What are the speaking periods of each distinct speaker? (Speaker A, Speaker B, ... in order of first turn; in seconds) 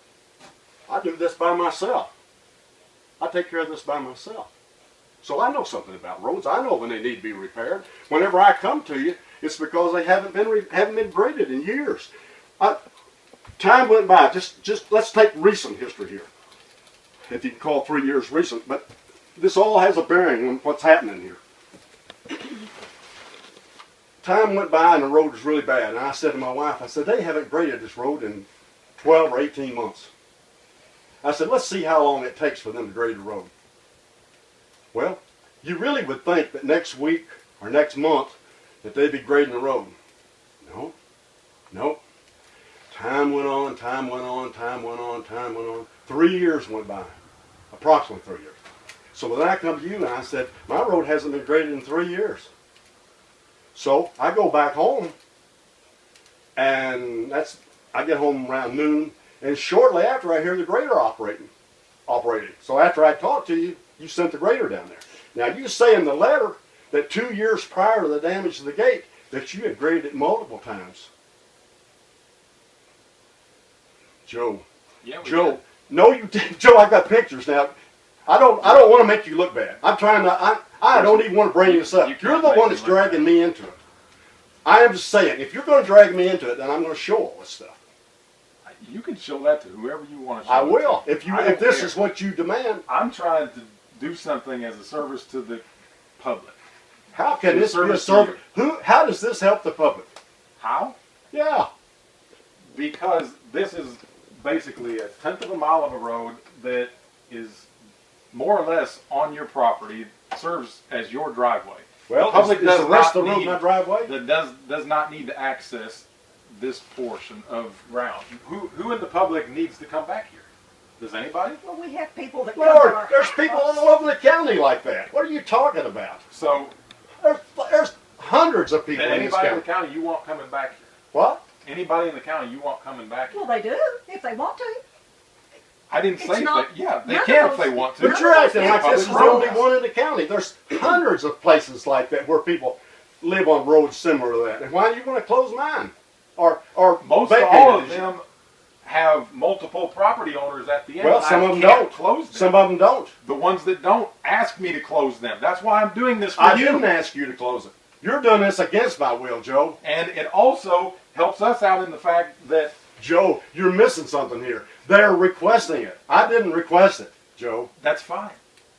Speaker A: 0.9-2.1, 3.2-4.5, 5.2-12.8, 13.6-16.3, 17.3-21.4, 24.2-28.5, 29.0-30.1, 31.2-33.5, 34.9-40.0, 40.6-41.0, 41.7-42.0, 42.9-47.1, 47.7-48.6, 49.1-52.5, 53.7-55.1, 56.5-61.5, 62.1-71.1, 74.3-74.7, 75.2-77.8, 78.3-83.8, 84.7-87.8, 90.5-92.8, 97.1-100.1, 101.3-101.7, 112.1-114.1, 122.5-126.2, 127.2-129.6, 131.1-131.4, 138.0-148.1, 151.0-153.1, 156.4-159.8, 163.0-167.7
Speaker B: 75.0-75.6, 80.9-83.3, 88.7-92.1, 92.9-95.6, 96.2-96.6, 97.4-98.4, 100.6-101.0, 102.7-107.7, 108.3-120.5, 121.0-121.6, 126.3-126.8, 128.9-130.9, 131.6-133.5, 135.9-139.7, 147.0-148.2, 148.8-152.7, 153.2-156.9, 159.8-162.7, 167.8-168.4
Speaker C: 121.6-123.8, 133.3-134.8, 136.2-139.6